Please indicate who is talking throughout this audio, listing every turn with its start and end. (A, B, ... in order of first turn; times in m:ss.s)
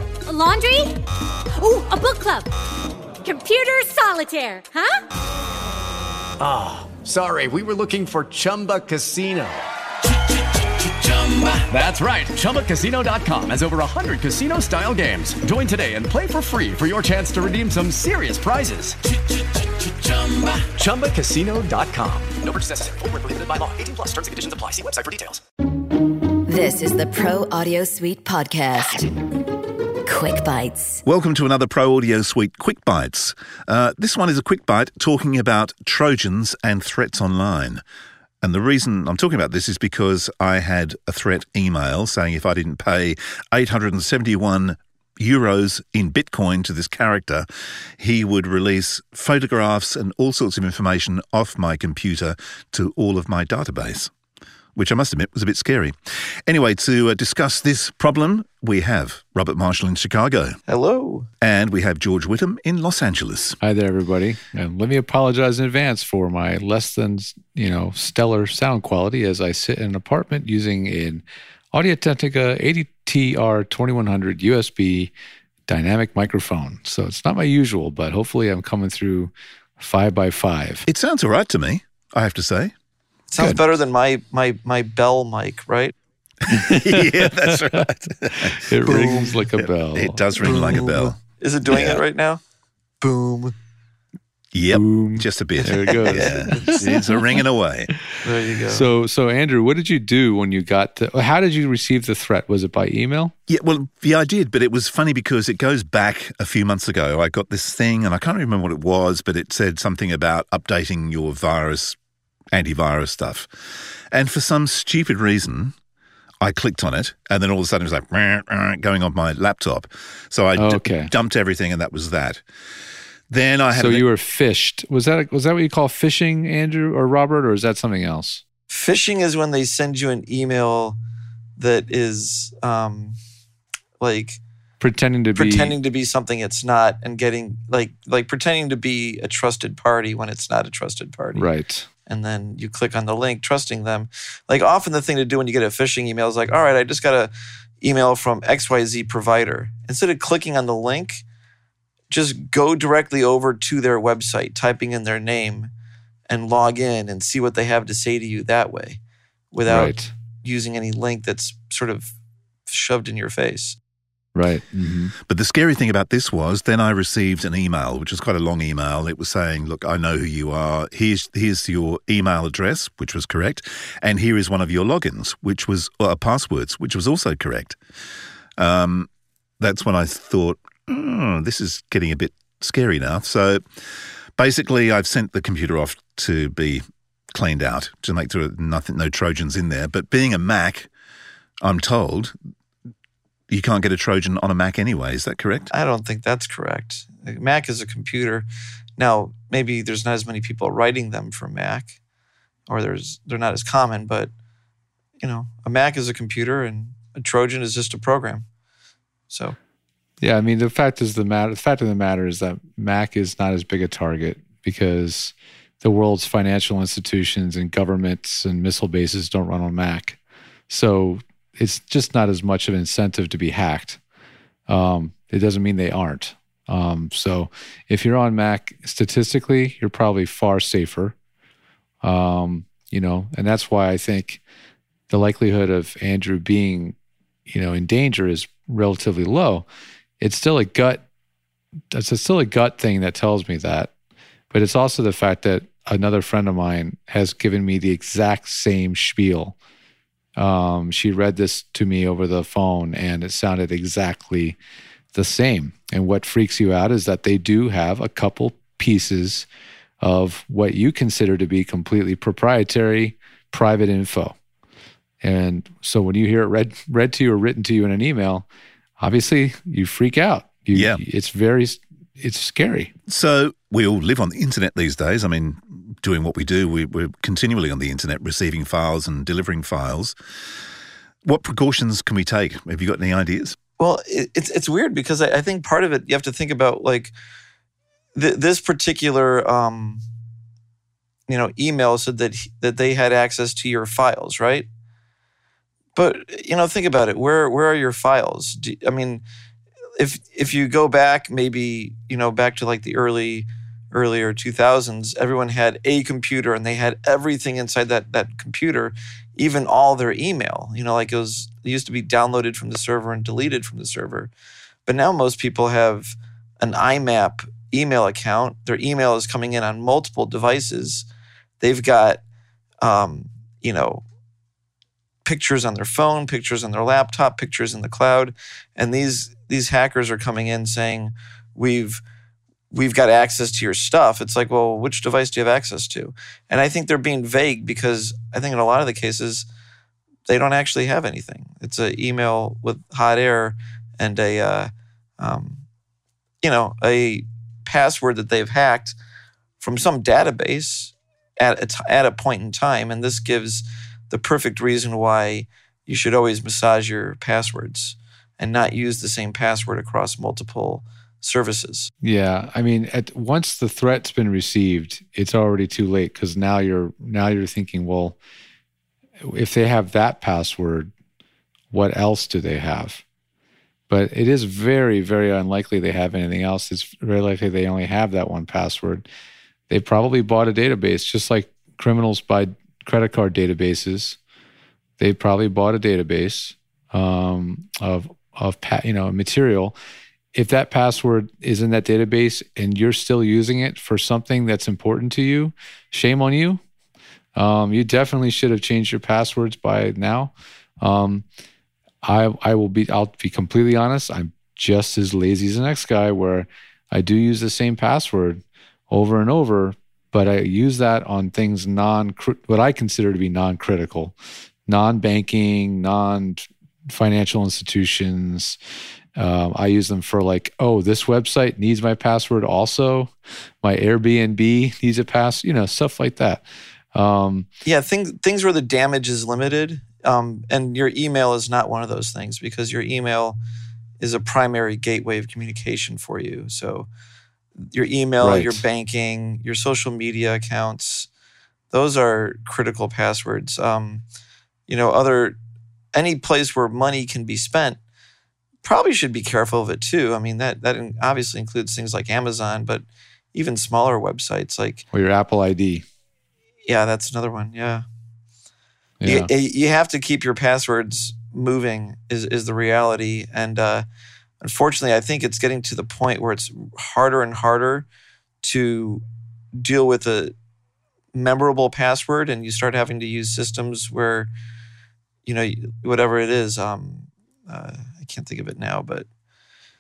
0:00.3-0:01.0 A
0:01.6-0:02.5 A
0:03.2-0:05.0 A
0:06.4-0:09.6 B
0:11.6-0:19.0 B
0:20.6-0:25.4 B
0:26.5-0:29.1 C
0:30.1-0:31.0 C
0:31.1-0:37.8 D
0:38.4-0:47.5 D
0:48.0-0:54.1 D
0:54.8-0:56.0 D
0:56.5-1:00.6 D
1:00.7-1:01.3 E
1:01.4-1:03.6 D
1:03.6-1:15.1 F
1:15.7-1:20.9 F
1:20.9-1:22.7 D
1:23.3-1:25.9 E
1:26.5-1:32.0 D
1:26.5-1:27.6 F
1:28.5-1:30.7 F
1:28.9-1:29.3 E
1:30.4-1:32.4 E
1:33.0-1:33.5 E
1:34.5-1:37.9 D
1:34.7-1:37.4 F
1:35.6-1:37.0 E
1:38.2-1:38.9 E
1:38.7-1:43.4 F
1:43.5-1:52.0 D
1:52.5-1:53.5 D
1:54.1-1:55.7 D
1:56.4-2:02.4 D
2:00.6-2:01.1 F
2:03.3-2:04.0 D
2:03.7-2:08.4 F
2:08.7-2:11.0 E
2:11.6-2:13.2 E
2:14.0-2:14.4 E
2:14.8-2:15.8 F
2:15.4-2:21.5 E
2:21.3-2:21.9 F
2:22.1-2:31.2 E
2:32.1-2:35.7 E
2:36.3-2:39.0 E
2:39.5-2:42.1 E
2:39.6-2:40.1 F
2:42.7-2:43.8 E
2:44.4-2:45.1 F
2:45.3-2:57.8 D
2:58.6-2:59.1 D
2:59.6-3:03.6 D
3:04.4-3:06.8 D
3:07.3-3:10.9 D
3:11.6-3:12.3 D
3:13.5-3:15.7 D
3:15.7-3:21.9 E
3:22.7-3:24.3 E
3:25.2-3:28.4 E
3:29.3-3:29.6 E
3:30.2-3:40.2 F
3:40.7-3:44.0 F
3:44.7-3:51.2 F
3:52.0-3:54.4 F
3:55.1-3:57.0 F
3:57.5-3:59.7 F
4:00.2-4:01.0 F
4:01.9-4:03.9 F
4:04.5-4:09.6 F
4:10.4-4:14.6 F
4:15.1-4:19.5 F
4:20.0-4:24.4 F
4:25.2-4:28.5 F
4:29.0-4:32.9 F
4:30.7-4:31.0 D
4:33.1-4:40.2 D
4:41.2-4:43.6 D
4:43.8-4:47.1 E
4:48.2-4:50.0 E
4:51.3-4:54.7 E
4:56.0-4:59.2 E
5:00.0-5:14.3 E
5:14.9-5:21.1 E
5:21.6-5:22.2 E
5:22.8-5:24.0 E
5:25.2-5:32.0 E
5:32.7-5:39.5 E
5:40.3-5:45.6 E
5:46.4-5:49.0 E
5:49.6-6:01.9 E
6:02.0-6:08.2 F
6:09.2-6:10.9 F
6:11.7-6:13.0 F
6:13.9-6:19.1 F
6:19.7-6:24.2 F
6:25.0-6:29.8 F
6:30.3-6:36.6 F
6:37.4-6:41.2 F
6:42.0-6:54.2 F
6:54.7-6:58.6 F
6:59.2-7:03.1 F
7:03.6-7:07.5 F
7:07.6-7:13.4 E
7:14.0-7:16.9 E
7:17.6-7:21.1 E
7:18.2-7:18.6 F
7:21.7-7:24.0 E
7:24.7-7:25.4 E
7:25.9-7:27.8 E
7:28.6-7:34.8 E
7:34.9-7:35.8 F
7:36.7-7:37.8 E
7:39.0-7:39.3 F
7:39.1-7:43.9 E
7:44.4-7:47.9 E
7:48.4-7:49.0 E
7:49.6-7:50.4 E
7:51.1-7:54.3 E
7:55.3-7:59.1 E